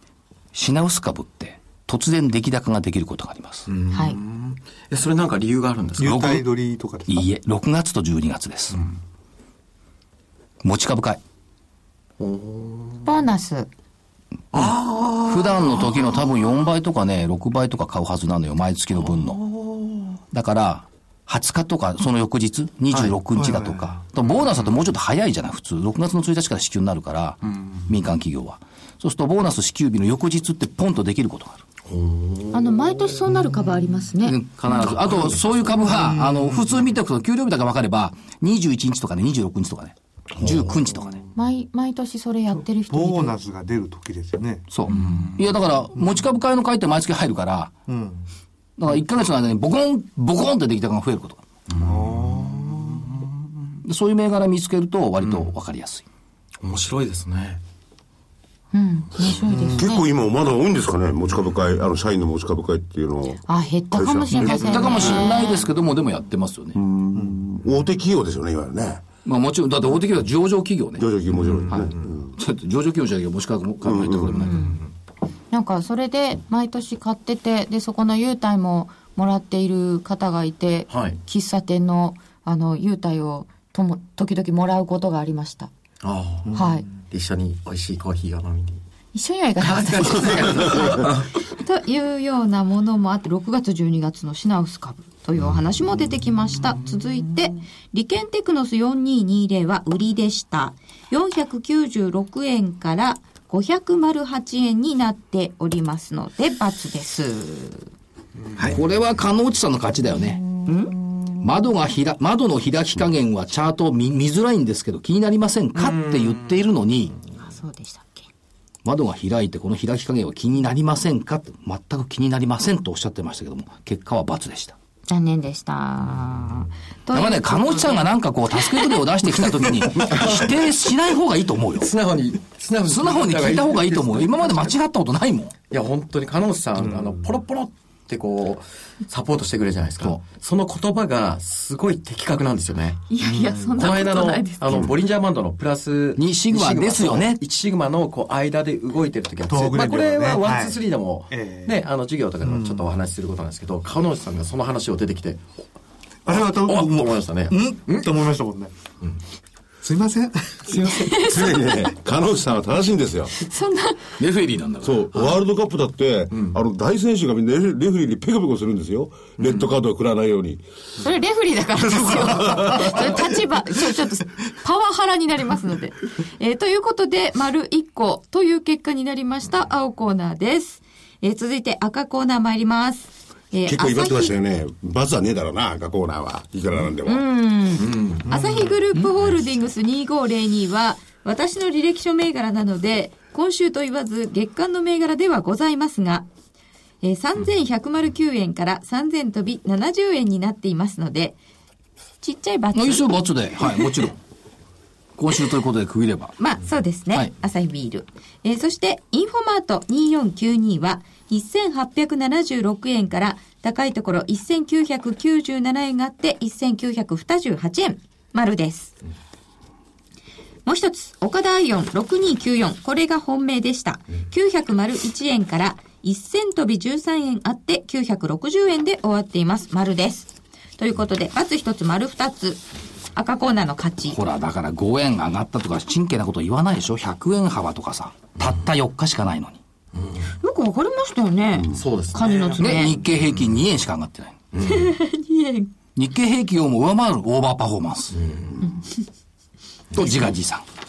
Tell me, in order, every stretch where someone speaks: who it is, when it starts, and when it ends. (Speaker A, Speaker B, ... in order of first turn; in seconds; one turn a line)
Speaker A: 0.5-3.7
Speaker B: 3.7-6.2
Speaker C: 3.9-4.2
Speaker D: 6.0-7.2
Speaker A: 6.0-6.4
Speaker A: 7.1-8.8
Speaker A: 10.6-11.2
Speaker B: 12.2-13.1
Speaker C: 13.0-13.7
Speaker B: 14.5-16.0
Speaker A: 15.2-19.4
Speaker B: 19.1-20.0
Speaker A: 20.3-31.6
Speaker D: 23.3-24.0
Speaker B: 27.5-27.8
Speaker B: 31.9-32.9
Speaker C: 32.5-34.8
Speaker A: 34.2-41.2
Speaker D: 36.0-36.6
Speaker B: 40.4-40.8
Speaker C: 41.3-43.4
Speaker D: 42.9-44.7
Speaker A: 44.7-47.7
Speaker B: 44.9-45.3
Speaker D: 47.9-48.2
Speaker A: 48.8-51.4
Speaker B: 51.7-53.2
Speaker D: 51.8-53.0
Speaker A: 53.8-56.0
Speaker B: 55.2-55.5
Speaker B: 56.6-57.6
Speaker C: 58.7-60.0
Speaker D: 59.5-59.9
Speaker E: 59.7-63.4
Speaker C: 63.5-65.7
Speaker E: 63.9-65.3
Speaker A: 64.4-66.8
Speaker E: 66.8-69.0
Speaker A: 69.2-71.1
Speaker E: 71.0-72.3
Speaker B: 71.3-71.8
Speaker A: 71.7-74.6
Speaker E: 73.8-74.4
Speaker C: 74.4-74.8
Speaker B: 74.4-74.9
Speaker C: 75.5-85.7
Speaker B: 80.9-81.2
Speaker B: 86.0-88.8
Speaker C: 86.5-86.8
Speaker C: 89.1-107.9
Speaker B: 89.6-91.4
Speaker A: 108.6-110.5
Speaker C: 110.7-110.9
Speaker A: 111.4-117.2
Speaker B: 115.8-116.4
Speaker C: 117.4-118.3
Speaker A: 118.8-124.8
Speaker C: 125.1-129.0
Speaker A: 127.1-131.9
Speaker B: 130.0-130.5
Speaker B: 131.8-134.7
Speaker A: 132.8-135.5
Speaker B: 135.7-143.1
Speaker C: 143.1-144.9
Speaker D: 143.3-143.8
Speaker B: 143.8-155.4
Speaker A: 146.2-147.4
Speaker D: 149.5-150.8
Speaker D: 151.3-151.8
Speaker D: 152.4-152.8
Speaker D: 156.2-158.7
Speaker B: 156.3-158.2
Speaker D: 159.8-160.8
Speaker B: 160.7-161.2
Speaker C: 160.9-161.6
Speaker E: 161.2-163.3
Speaker C: 163.4-164.1
Speaker A: 164.2-165.1
Speaker E: 164.8-170.6
Speaker B: 166.3-166.6
Speaker C: 171.0-184.3
Speaker E: 172.0-172.9
Speaker E: 183.7-187.2
Speaker C: 187.0-196.3
Speaker B: 187.8-188.3
Speaker D: 188.3-188.7
Speaker C: 197.0-201.4
Speaker C: 202.2-203.9
Speaker A: 202.7-204.2
Speaker A: 205.2-206.3
Speaker C: 206.4-218.9
Speaker C: 220.7-234.2
Speaker A: 234.1-239.6
Speaker C: 240.4-242.9
Speaker B: 241.7-242.8
Speaker A: 242.6-244.4
Speaker B: 244.5-244.9
Speaker C: 244.6-245.7
Speaker A: 245.9-248.2
Speaker B: 248.2-248.6
Speaker A: 249.9-250.6